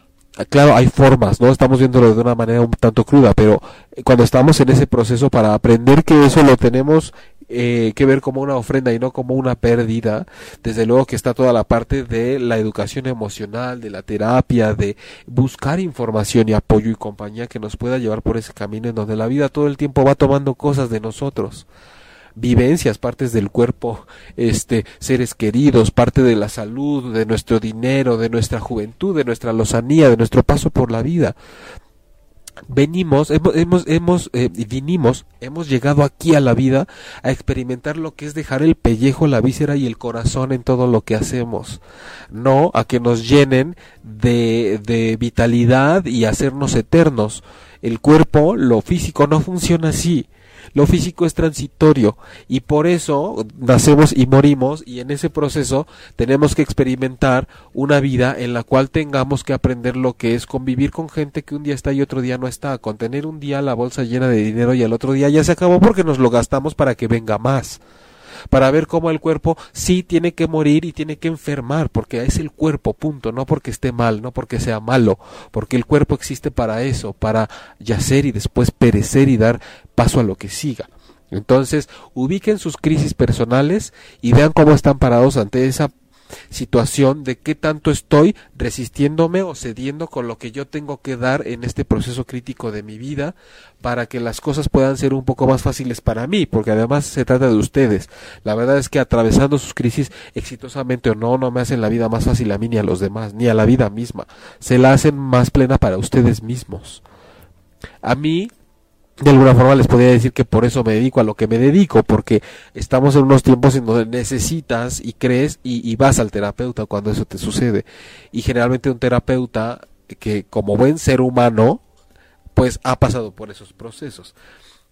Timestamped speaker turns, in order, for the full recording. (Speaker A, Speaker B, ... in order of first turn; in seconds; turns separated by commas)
Speaker A: 0.4-21.7, Speaker A: 22.4-31.3, Speaker A: 32.7-41.8, Speaker A: 42.3-67.8, Speaker A: 68.5-85.9, Speaker A: 86.5-107.0, Speaker A: 108.0-108.5, Speaker A: 109.2-121.8, Speaker A: 122.5-124.4